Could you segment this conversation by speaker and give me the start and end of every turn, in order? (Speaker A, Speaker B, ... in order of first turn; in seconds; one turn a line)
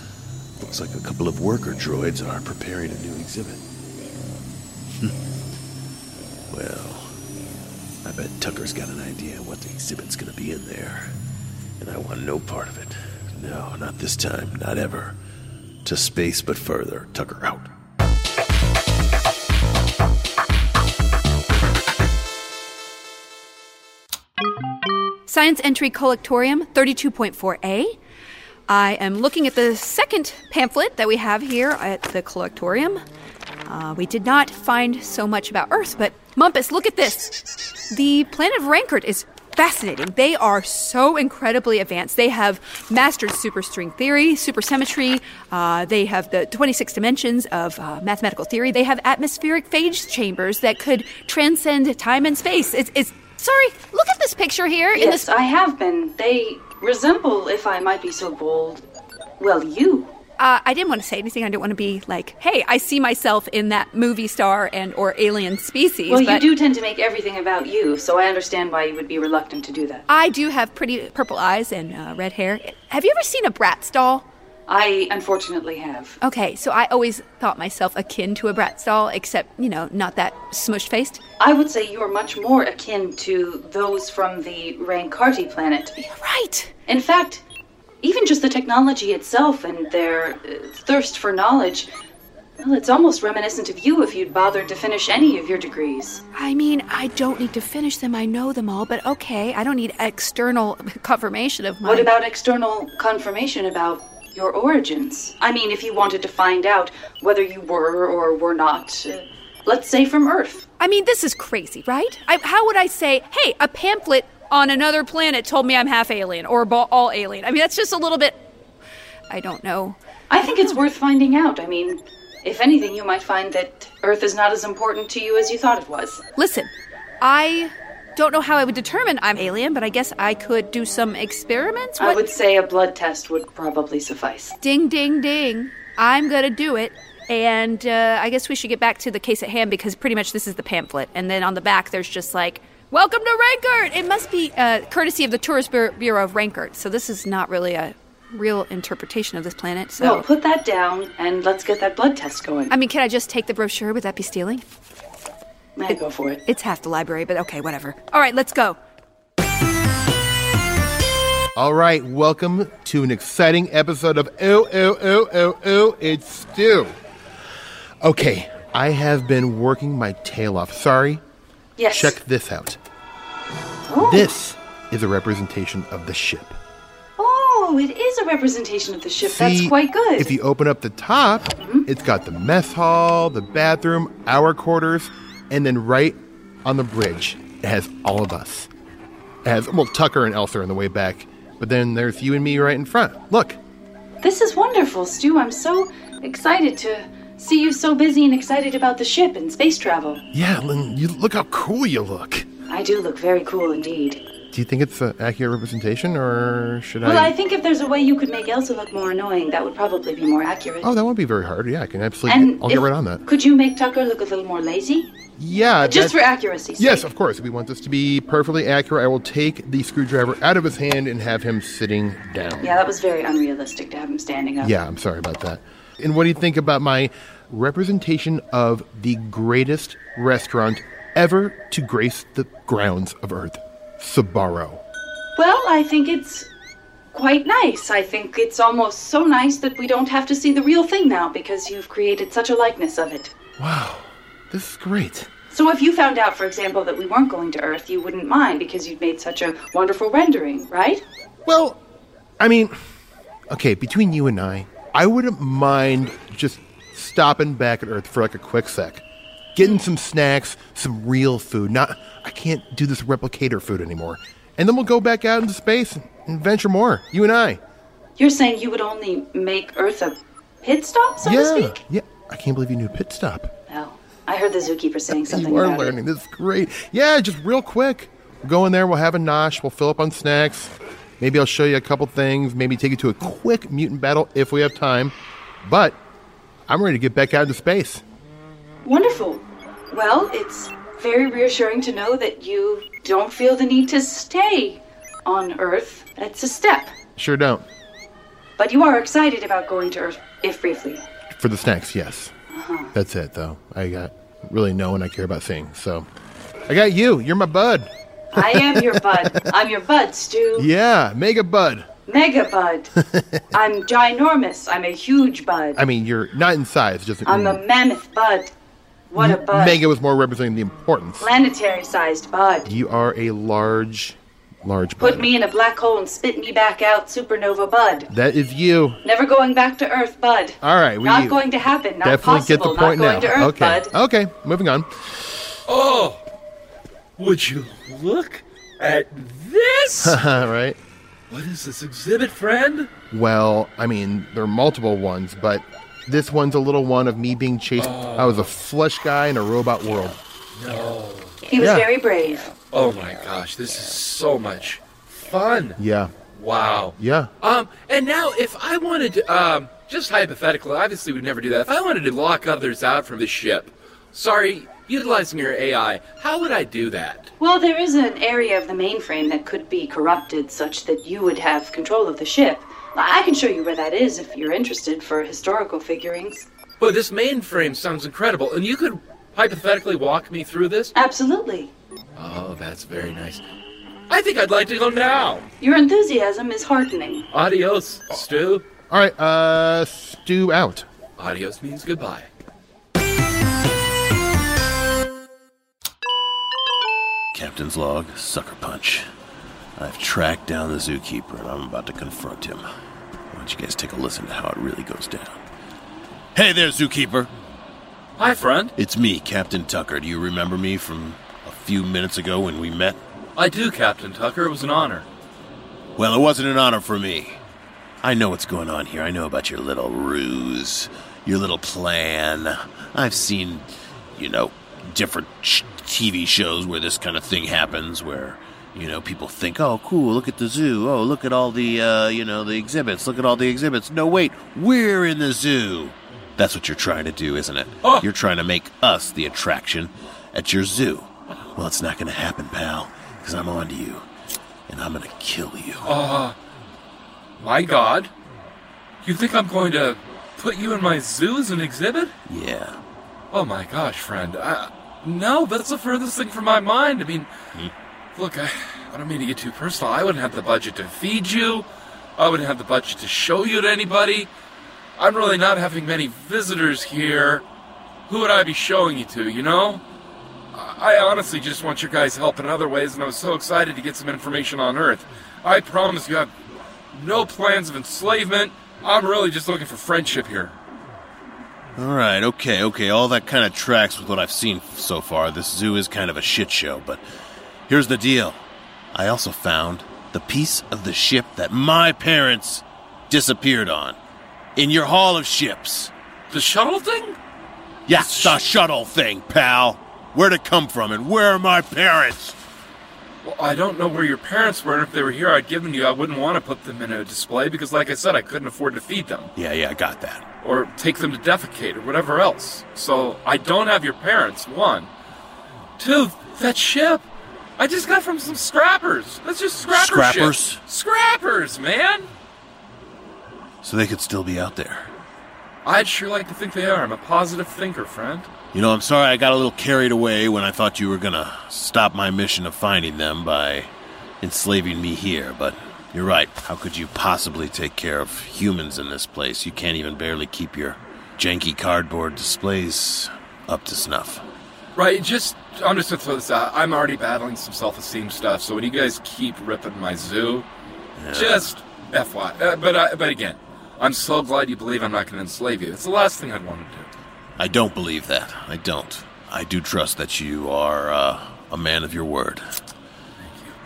Speaker A: 0.6-3.6
Speaker A: 6.5-7.1
Speaker A: 8.0-11.2
Speaker A: 11.8-15.2
Speaker A: 15.8-17.7
Speaker B: 25.3-28.0
Speaker B: 28.7-33.0
Speaker B: 33.7-37.4
Speaker B: 37.9-55.3
Speaker C: 55.0-58.8
Speaker C: 59.4-60.1
Speaker B: 60.4-66.5
Speaker C: 66.1-70.0
Speaker B: 70.1-74.2
Speaker C: 74.7-76.2
Speaker B: 76.2-81.2
Speaker C: 81.4-86.0
Speaker B: 86.0-86.7
Speaker C: 86.9-87.4
Speaker C: 88.0-91.9
Speaker C: 92.6-96.2
Speaker B: 96.3-102.1
Speaker C: 101.8-110.7
Speaker B: 110.8-118.4
Speaker B: 119.3-120.8
Speaker C: 120.3-126.2
Speaker B: 126.4-132.2
Speaker C: 132.0-134.6
Speaker B: 134.6-150.3
Speaker C: 150.0-152.7
Speaker B: 152.7-154.6
Speaker C: 155.8-156.4
Speaker B: 155.9-158.8
Speaker D: 161.6-166.9
Speaker D: 168.0-171.2
Speaker C: 171.8-172.2
Speaker D: 171.9-172.8
Speaker C: 173.9-174.3
Speaker D: 174.0-176.6
Speaker C: 177.2-180.3
Speaker D: 179.2-188.7
Speaker C: 181.6-181.9
Speaker D: 189.4-193.6
Speaker C: 194.2-200.2
Speaker D: 200.3-202.5
Speaker C: 202.7-204.2
Speaker D: 204.5-207.3
Speaker C: 207.0-210.9
Speaker D: 210.8-213.2
Speaker C: 212.3-215.1
Speaker D: 215.4-216.2
Speaker C: 215.8-217.1
Speaker D: 216.8-222.8
Speaker C: 222.6-224.7
Speaker D: 224.6-234.8
Speaker C: 235.4-236.5
Speaker C: 237.1-243.3
Speaker D: 243.6-245.3
Speaker C: 245.5-251.0
Speaker D: 251.5-251.8
Speaker D: 252.4-252.8
Speaker D: 253.5-259.0
Speaker D: 259.6-267.6
Speaker C: 268.2-271.8
Speaker D: 271.2-273.5
Speaker C: 273.7-275.9
Speaker D: 275.1-286.0
Speaker D: 286.7-288.0
Speaker C: 288.8-296.9
Speaker D: 297.2-297.6
Speaker C: 298.6-301.1
Speaker D: 301.3-302.3
Speaker C: 302.5-302.9
Speaker D: 302.9-306.1
Speaker D: 306.7-309.5
Speaker C: 308.3-310.7
Speaker D: 310.6-311.9
Speaker C: 312.1-312.9
Speaker D: 313.0-313.4
Speaker C: 313.5-315.8
Speaker D: 315.8-317.6
Speaker C: 317.2-318.5
Speaker C: 319.1-319.8
Speaker D: 319.2-321.3
Speaker C: 321.2-322.7
Speaker D: 322.7-325.3
Speaker C: 325.0-328.1
Speaker D: 328.1-329.0
Speaker C: 329.0-333.9
Speaker D: 330.6-331.4
Speaker D: 332.0-335.3
Speaker E: 335.7-336.2
Speaker E: 337.2-340.2
Speaker D: 340.0-340.8
Speaker E: 341.3-342.9
Speaker D: 343.1-350.2
Speaker E: 347.8-348.5
Speaker E: 350.6-351.4
Speaker C: 351.5-352.6
Speaker D: 351.6-351.9
Speaker E: 352.7-355.8
Speaker D: 355.8-356.1
Speaker E: 356.3-367.3
Speaker D: 357.0-357.3
Speaker C: 367.4-376.5
Speaker E: 376.8-380.9
Speaker C: 380.9-381.7
Speaker E: 382.2-383.4
Speaker E: 384.1-385.4
Speaker C: 385.6-387.3
Speaker E: 387.3-388.6
Speaker D: 388.9-390.9
Speaker E: 391.2-392.3
Speaker A: 397.3-399.1
Speaker A: 399.8-402.6
Speaker A: 403.3-405.4
Speaker A: 406.4-407.3
Speaker E: 408.2-408.7
Speaker A: 408.8-413.0
Speaker E: 413.4-415.1
Speaker A: 416.0-417.4
Speaker A: 418.0-444.1
Speaker A: 444.7-445.9
Speaker E: 445.9-446.4
Speaker E: 447.4-448.1
Speaker E: 449.0-452.1
Speaker A: 452.3-452.8
Speaker E: 453.3-457.3
Speaker E: 458.1-461.7
Speaker E: 462.2-464.3
Speaker E: 465.0-467.4
Speaker E: 468.1-469.8
Speaker E: 470.5-476.3
Speaker E: 476.9-480.6
Speaker A: 481.8-487.0
Speaker A: 487.7-488.4
Speaker A: 488.9-494.0
Speaker A: 494.6-495.9
Speaker E: 496.3-497.2
Speaker A: 497.9-502.4
Speaker E: 497.9-498.4
Speaker E: 503.2-509.3
Speaker A: 509.4-510.2
Speaker E: 510.4-514.9
Speaker E: 515.8-517.0
Speaker E: 517.6-522.1
Speaker A: 519.7-520.6
Speaker A: 523.6-524.9
Speaker E: 525.6-528.3
Speaker A: 528.5-544.2
Speaker E: 544.8-550.5
Speaker A: 551.0-551.6
Speaker E: 551.1-556.9
Speaker A: 557.4-562.5
Speaker E: 563.3-563.6